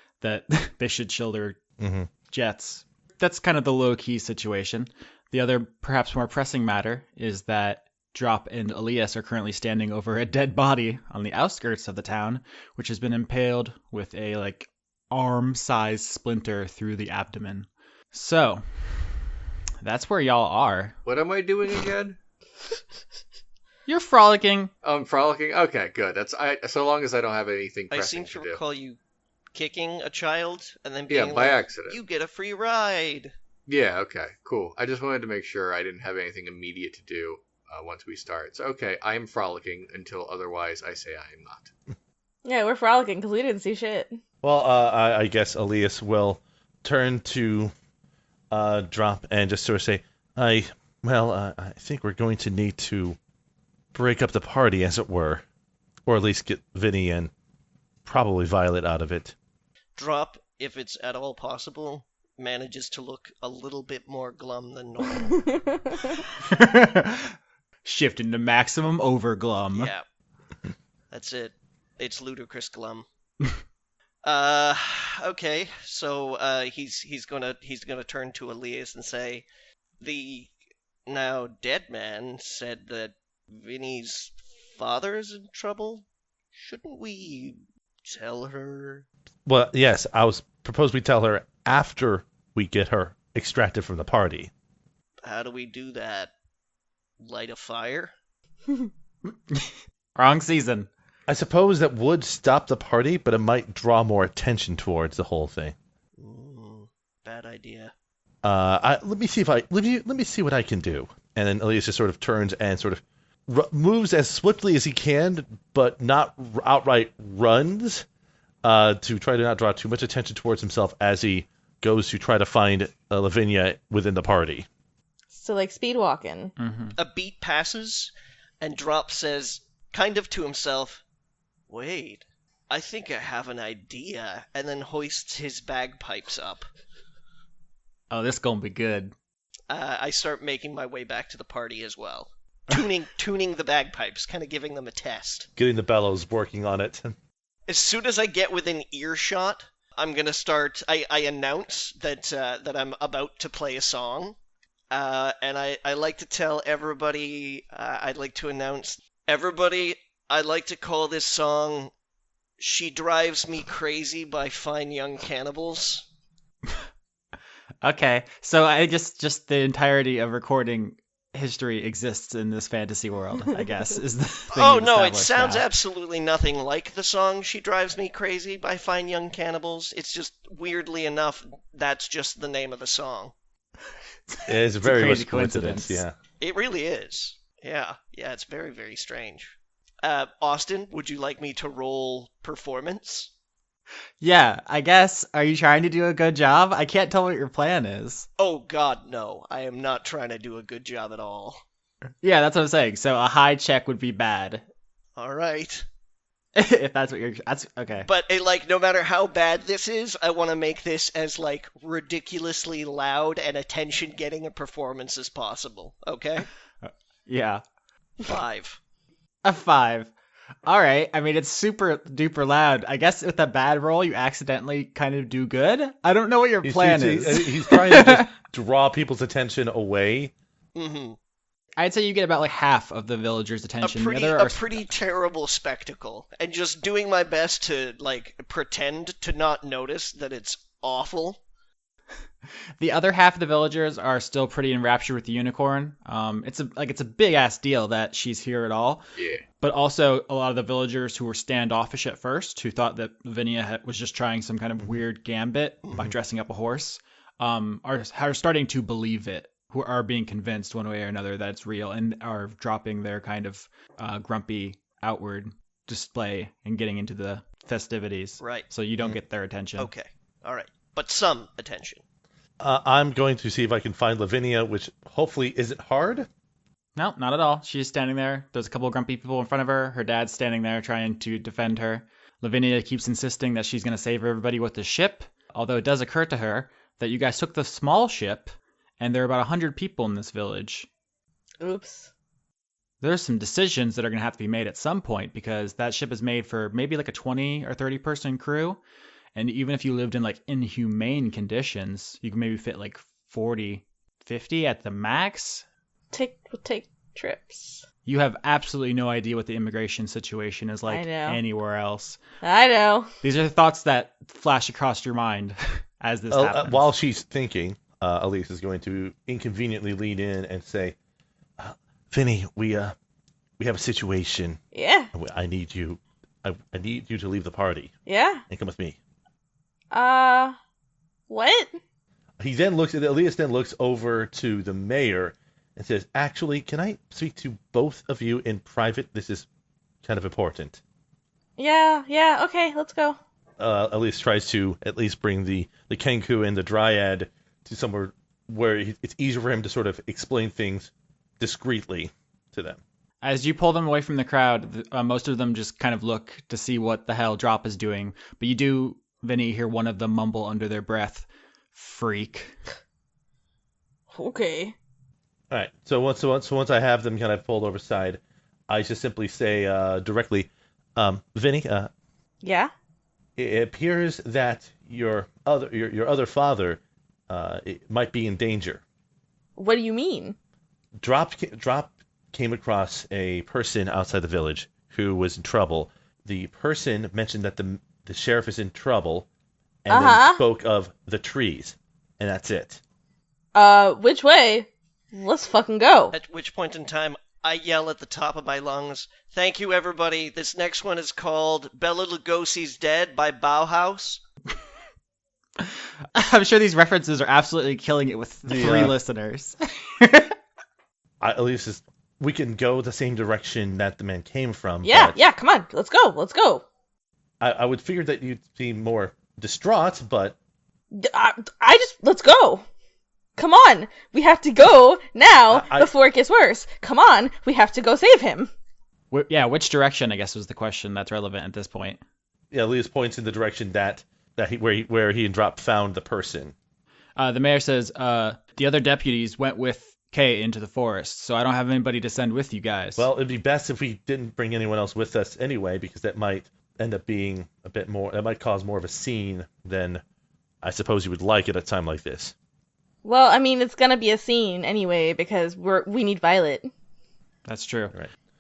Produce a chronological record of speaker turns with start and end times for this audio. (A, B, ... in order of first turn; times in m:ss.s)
0:00.2-0:01.6 A
0:01.8-0:02.1 B
0:02.3-0:18.6 A
0:19.8-0:21.0 A
0:21.0-0:22.2 C
0:23.9-0:24.7 A
0:24.8-0:28.6 C
0:27.9-0:29.0 D
0:29.5-0:33.3 D
0:31.1-0:32.0 C
0:33.7-0:41.7 C
0:42.4-0:44.2 E
0:44.4-0:47.7 B
0:48.5-0:53.2 B
0:53.9-0:55.4 B
0:56.1-0:57.3 B
0:58.0-0:59.3 B
1:00.0-1:05.9 D
1:06.4-1:09.9 A
1:09.7-1:10.0 D
1:11.1-1:13.1 D
1:14.2-1:19.4 D
1:20.0-1:20.5 D
1:21.1-1:29.0 D
1:29.5-1:34.5 B
1:35.2-1:36.3 D
1:37.2-1:38.1 D
1:39.5-1:40.9 A
1:41.3-1:45.8 B
1:46.2-1:47.9 D
1:48.4-1:58.1 B
1:58.6-2:04.7 B
2:05.3-2:06.5 E
2:06.6-2:07.0 A
2:07.0-2:11.0 D
2:11.7-2:16.7 D
2:18.1-2:19.1 A
2:19.7-2:25.5 D
2:25.6-2:27.2 B
2:27.7-2:34.4 D
2:34.9-2:41.9 D
2:42.6-2:46.0 D
2:47.8-2:55.6 A
2:54.5-3:03.3 D
3:04.3-3:06.0 A
3:04.5-3:06.2 B
3:06.4-3:13.3 D
3:14.2-3:18.3 A
3:18.4-3:21.6 D
3:22.2-3:24.6 A
3:25.2-3:25.8 D
3:26.6-3:28.1 A
3:28.0-3:36.5 D
3:36.8-3:37.6 A
3:38.2-3:38.8 D
3:39.4-3:40.1 A
3:40.7-3:48.3 A
3:46.6-3:50.3 B
3:50.8-3:51.2 D
3:51.8-3:54.9 A
3:53.8-4:01.4 D
4:02.8-4:09.1 A
4:09.2-4:09.4 C
4:09.6-4:29.9 A
4:28.4-4:28.7 D
4:29.8-4:32.0 D
4:32.6-4:36.3 B
4:37.0-4:50.9 A
4:51.6-4:52.1 E
4:53.0-4:58.8 A
4:59.4-5:05.6 A
5:06.1-5:07.8 E
5:08.0-5:12.2 A
5:10.9-5:11.4 E
5:12.4-5:13.1 E
5:13.2-5:16.9 A
5:16.3-5:21.0 B
5:21.6-5:23.0 B
5:23.6-5:24.6 B
5:24.7-5:25.1 E
5:25.1-5:27.9 B
5:28.1-5:28.4 E
5:28.5-5:29.0 B
5:29.9-5:30.6 E
5:31.3-5:31.8 E
5:32.4-5:39.5 B
5:40.0-5:40.8 B
5:41.6-5:43.2 E
5:43.6-5:52.8 B
5:53.2-6:02.6 A
6:04.1-6:04.8 E
6:05.5-6:11.9 B
6:12.4-6:12.7 E
6:13.4-6:18.8 B
6:19.6-6:20.4 E
6:21.0-6:29.3 B
6:29.8-6:32.8 B
6:29.9-6:30.4 E
6:33.6-6:36.2 E
6:36.1-6:44.2 D
6:45.6-6:50.4 A
6:48.5-6:49.0 B
6:51.2-6:55.2 B
6:54.8-6:56.6 E
6:57.4-7:00.4 B
7:00.9-7:02.6 E
7:03.4-7:08.5 E
7:05.5-7:05.9 B
7:09.1-7:12.0 A
7:12.5-7:16.6 B
7:17.2-7:23.1 A
7:23.0-7:30.0 B
7:30.6-7:32.3 B
7:33.0-7:36.7 E
7:37.5-7:37.9 A